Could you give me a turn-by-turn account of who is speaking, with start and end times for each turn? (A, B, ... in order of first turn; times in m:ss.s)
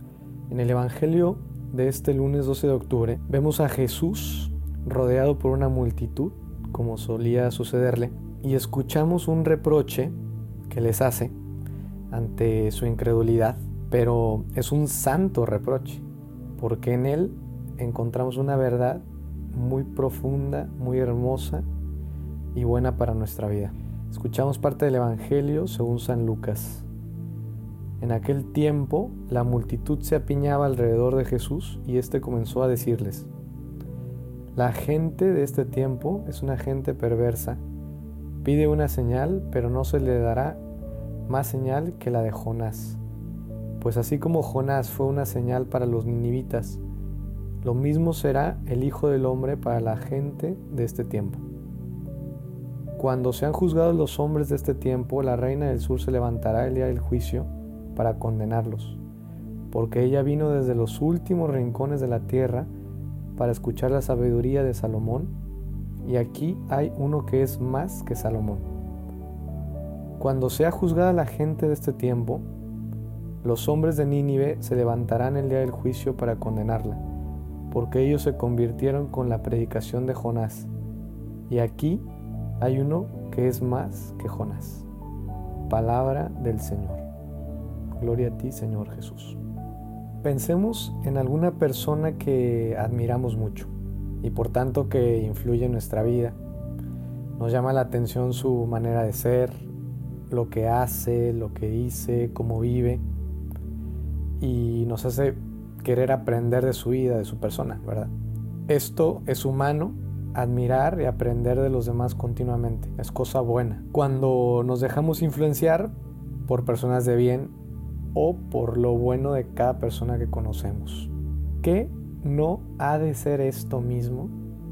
0:00.5-0:10.2 A
0:10.7-0:11.3 A
0:12.1-0:16.0 A
0:16.6-0:21.6 A
0:22.5-0:26.9 A
0:28.0-0:33.3 A
0:34.5-0:37.6 A
0:38.4-0:40.6 A
0:41.3-0:43.0 A
0:43.8-0:46.8 A
0:47.6-0:51.4 A
0:53.0-0:59.0 A
0:59.7-1:02.7 A
1:03.4-1:05.3 A
1:06.0-1:08.7 A
1:10.2-1:12.4 A
1:13.4-1:17.0 A
1:17.7-1:20.7 A
1:21.5-1:22.1 A
1:22.6-1:24.9 A
1:25.7-1:27.0 A
1:28.0-1:29.4 A
1:30.2-1:36.4 A
1:37.4-1:39.7 A
1:40.3-1:43.0 A
1:44.4-1:48.1 A
1:48.7-1:55.9 A
1:56.4-1:57.5 A
1:58.1-2:04.3 A